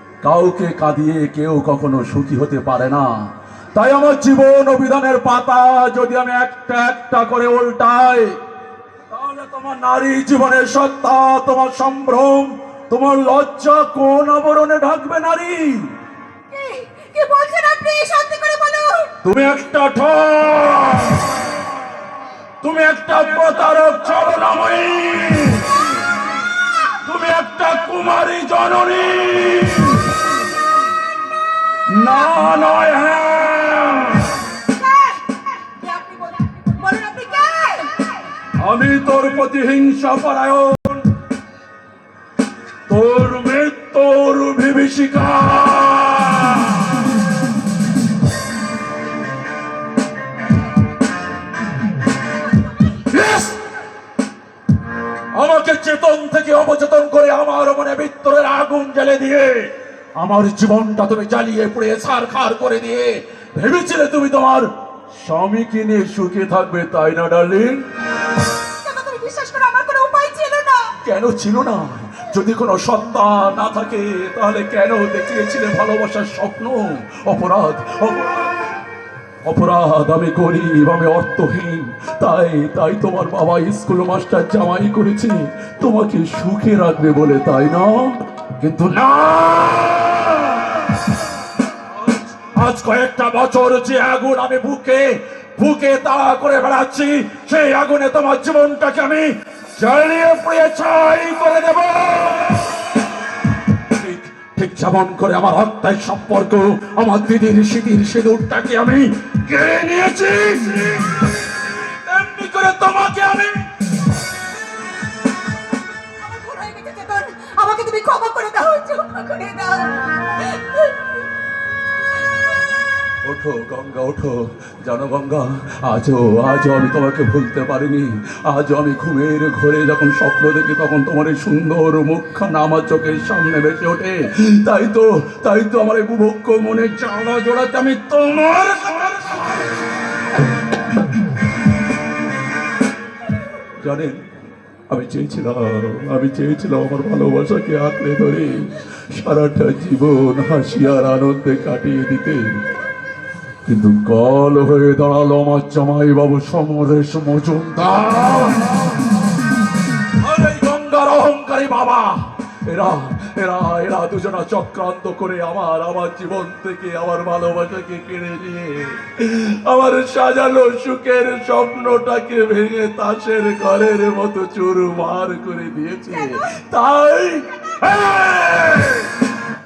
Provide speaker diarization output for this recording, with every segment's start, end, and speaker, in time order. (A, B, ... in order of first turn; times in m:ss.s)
0:00.2-0:03.1 A
0:03.8-0:08.4 A
0:09.1-0:15.9 A
0:16.5-0:19.1 B
0:19.2-0:21.3 A
0:22.6-0:25.8 A
0:27.0-0:30.2 A
0:31.9-0:34.4 A
0:34.6-0:38.1 B
0:38.6-0:41.0 A
0:42.9-0:47.1 A
0:53.1-0:53.6 A
0:55.3-1:07.9 A
1:08.8-1:10.9 B
1:11.0-1:18.6 A
1:19.4-1:31.0 A
1:32.4-1:42.9 A
1:43.9-1:51.3 A
1:52.0-1:53.7 A
1:56.2-2:01.0 B
2:03.2-2:19.6 A
2:23.8-2:24.2 A
2:24.9-2:32.6 A
2:33.7-2:38.8 A
2:40.2-2:59.1 A
2:56.1-2:56.6 B
2:57.5-2:57.8 B